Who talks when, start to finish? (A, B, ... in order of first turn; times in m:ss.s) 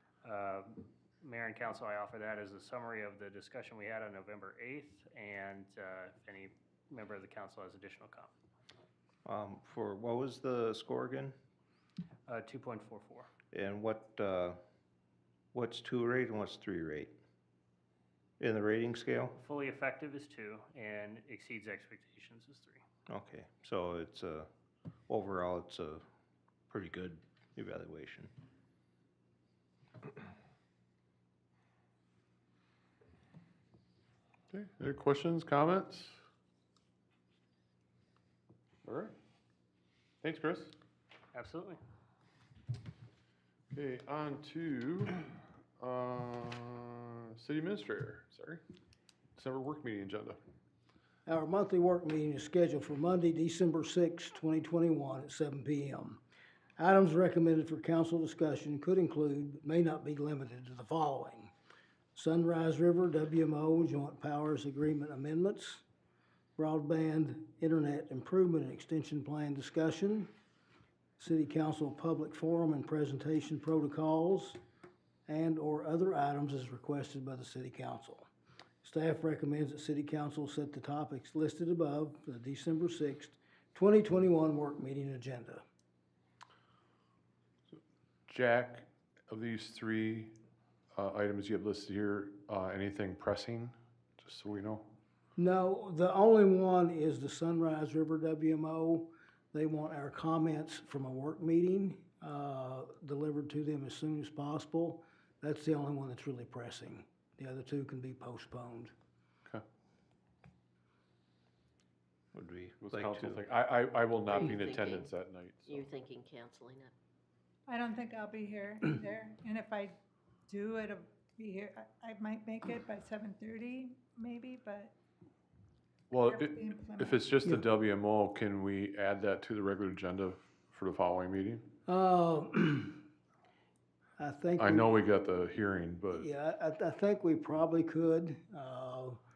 0:00.2-0:08.3 A
0:09.2-0:11.3 B
0:12.3-0:13.3 A
0:13.5-0:14.6 B
0:15.5-0:17.1 B
0:18.4-0:19.3 B
0:19.4-0:22.8 A
0:23.1-0:24.5 B
0:25.1-0:26.0 B
0:26.7-0:28.3 B
0:34.5-0:36.2 C
0:38.8-0:39.2 C
0:40.2-0:40.7 C
0:41.3-0:41.8 A
0:43.7-0:48.6 C
0:49.4-0:50.4 C
0:51.3-0:56.2 D
0:56.8-1:01.5 D
1:02.2-1:05.8 D
1:06.6-1:10.3 D
1:11.2-1:14.6 D
1:15.3-1:18.3 D
1:18.8-1:25.6 D
1:28.3-1:30.3 C
1:31.0-1:34.9 C
1:35.4-1:48.9 D
1:52.3-1:53.4 B
1:52.8-1:55.9 C
1:54.3-1:55.1 E
1:55.7-1:56.9 E
1:57.7-2:00.0 F
2:00.5-2:04.9 F
2:06.1-2:11.7 C
2:06.2-2:07.4 F
2:11.9-2:13.0 D
2:14.2-2:14.9 D
2:14.6-2:16.3 C
2:16.1-2:19.2 D